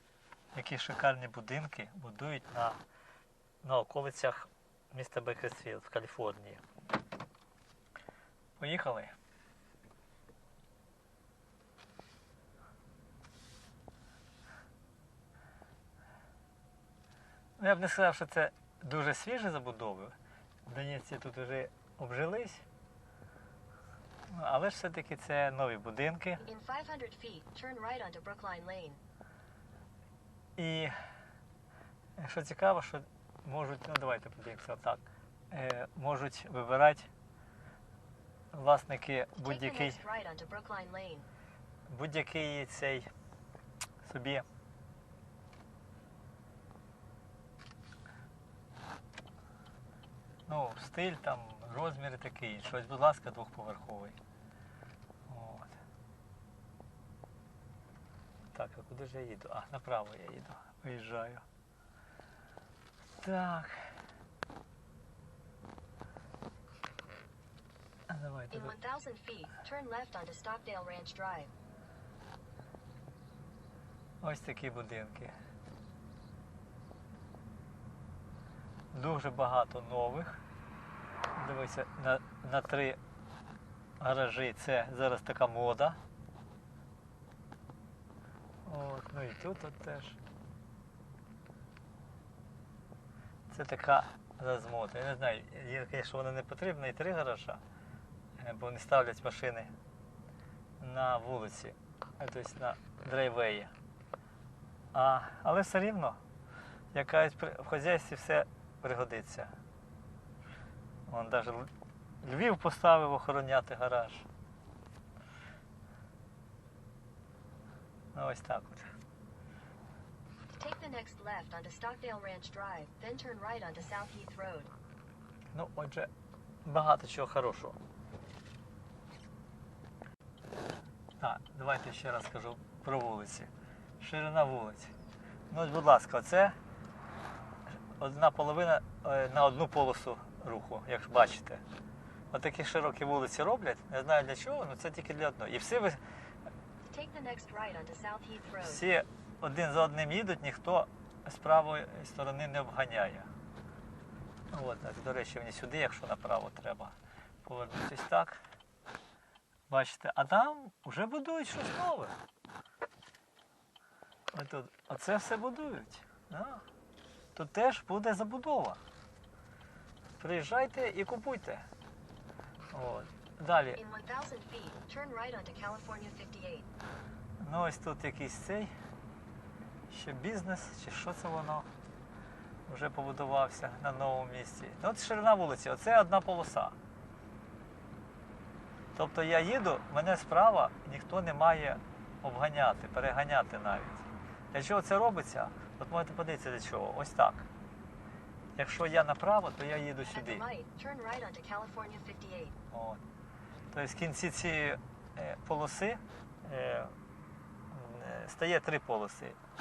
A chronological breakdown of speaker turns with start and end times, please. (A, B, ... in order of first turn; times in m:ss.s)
0:00.5-0:02.8 A
0:03.6-0:06.6 A
0:08.6-0:09.1 A
0:17.6-0:20.1 A
0:20.7-0:22.6 A
0:24.3-0:26.4 A
0:26.4-0:29.0 B
0:30.6-0:30.9 A
0:32.2-0:37.1 A
0:38.5-0:40.0 A
0:39.3-0:41.3 B
0:41.9-0:43.1 A
0:44.0-0:44.4 A
0:50.5-0:54.2 A
0:55.3-0:55.8 A
0:58.5-1:01.4 A
1:03.2-1:03.8 A
1:08.1-1:08.7 A
1:08.5-1:11.5 B
1:14.2-1:15.3 A
1:18.9-1:20.4 A
1:21.4-1:23.0 A
1:24.0-1:26.0 A
1:28.6-1:30.2 A
1:33.5-1:37.6 A
1:38.4-1:39.7 A
1:40.8-1:43.7 A
1:44.9-1:46.2 A
1:46.9-1:49.5 A
1:51.1-1:51.7 A
1:52.2-1:54.3 A
1:58.1-1:58.9 A
2:00.5-2:04.7 B
2:05.5-2:06.1 A
2:06.6-2:07.8 A
2:11.2-2:14.9 A
2:15.5-2:16.6 A
2:18.0-2:21.6 A
2:22.3-2:26.0 A
2:26.9-2:28.8 B
2:28.6-2:33.3 A
2:34.5-2:36.9 A
2:37.4-2:38.4 A
2:39.7-2:42.2 A
2:44.3-2:46.6 A
2:47.3-2:48.8 A
2:50.2-2:51.7 A
2:52.7-2:53.8 A
2:53.7-2:56.7 B
2:57.4-2:58.7 A
2:59.9-3:01.7 A
3:02.7-3:06.8 A
3:08.9-3:17.5 A
3:18.6-3:20.4 A
3:20.0-3:22.6 B
3:22.7-3:23.0 A
3:23.7-3:26.9 A
3:27.7-3:29.4 A